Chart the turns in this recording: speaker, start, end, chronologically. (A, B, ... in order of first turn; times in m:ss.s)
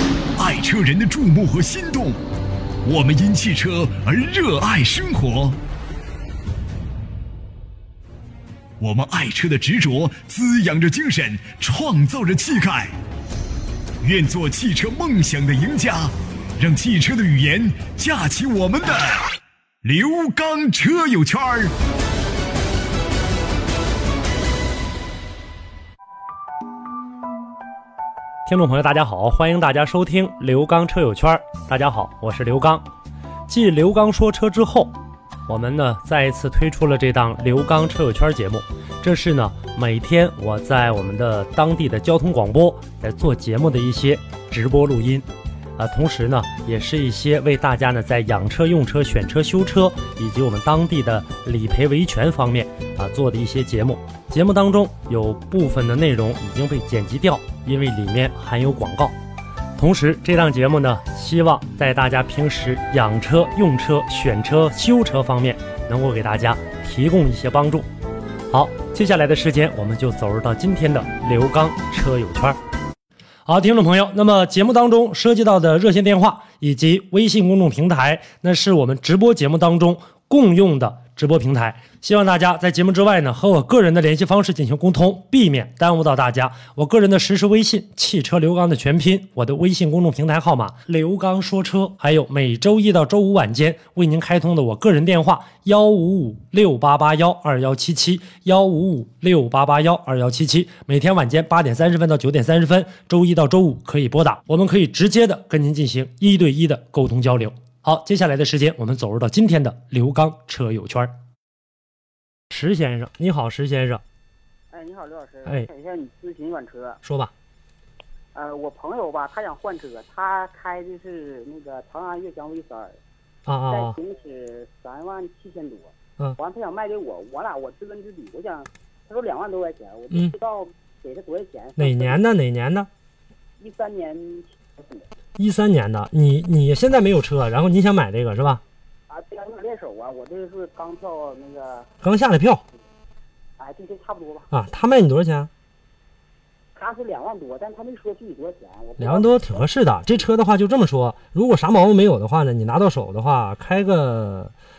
0:00.4-0:02.2 A
0:02.8-0:05.6 A
0:08.8-0:12.9 A
0:14.0-0:19.3 A
0:19.8-0:21.7 A
0:28.4-0:32.9 B
0:33.5-0:59.2 B
0:59.8-1:07.9 B
1:08.5-1:12.6 B
1:13.4-1:51.2 B
1:52.5-1:54.0 B
1:54.7-1:57.0 C
1:57.0-1:57.3 B
1:58.3-2:03.0 C
2:03.4-2:04.0 B
2:03.7-2:12.2 C
2:11.8-2:12.9 B
2:13.6-2:15.1 C
2:15.4-2:18.6 B
2:19.1-2:21.9 C
2:22.0-2:22.6 B
2:23.6-2:24.5 C
2:24.5-2:25.5 B
2:26.7-2:29.7 C
2:29.0-2:34.5 B